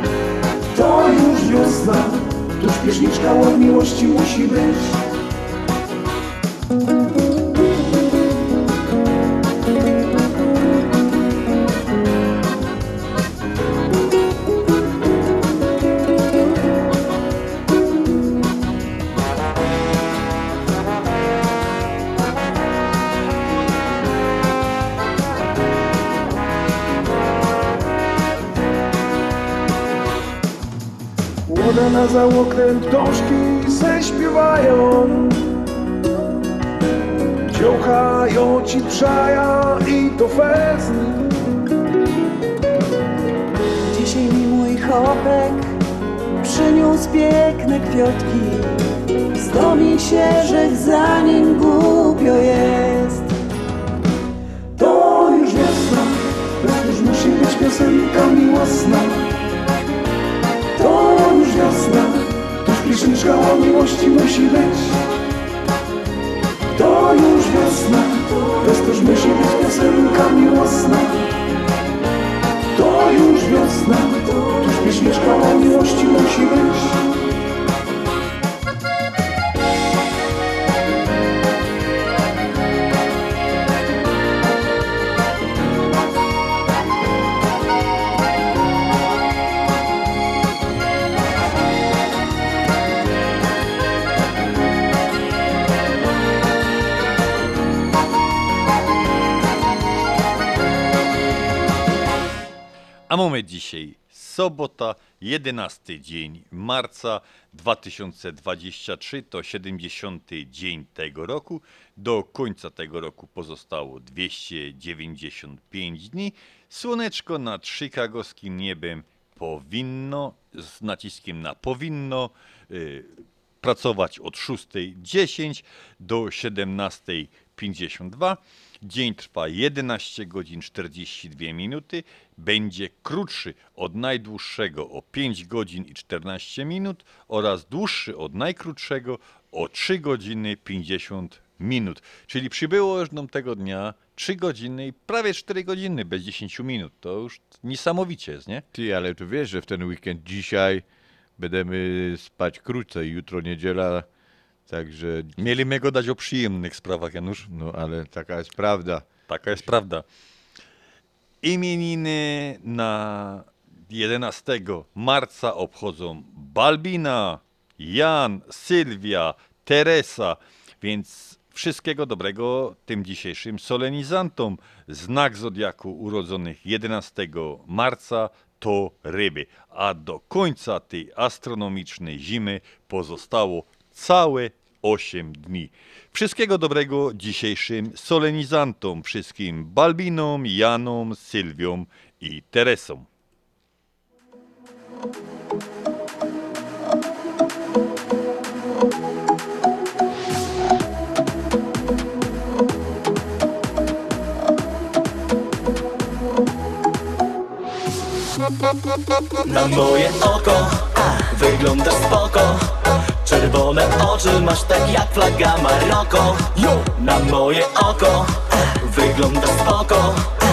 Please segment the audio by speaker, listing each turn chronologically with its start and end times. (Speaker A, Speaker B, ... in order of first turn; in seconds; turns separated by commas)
Speaker A: 0.7-5.0, Speaker A: 31.5-35.4, Speaker A: 37.5-41.1, Speaker B: 43.9-45.8, Speaker B: 46.4-53.3, Speaker A: 54.8-59.2, Speaker A: 60.8-65.0, Speaker A: 66.7-71.2, Speaker A: 72.7-77.0, Speaker C: 103.1-123.1, Speaker C: 123.6-148.6, Speaker D: 148.7-150.8, Speaker D: 151.4-154.1, Speaker D: 154.7-155.4, Speaker C: 155.4-157.5, Speaker D: 157.5-159.1, Speaker C: 159.3-160.0, Speaker C: 161.4-193.1, Speaker E: 209.4-212.7, Speaker E: 213.2-220.3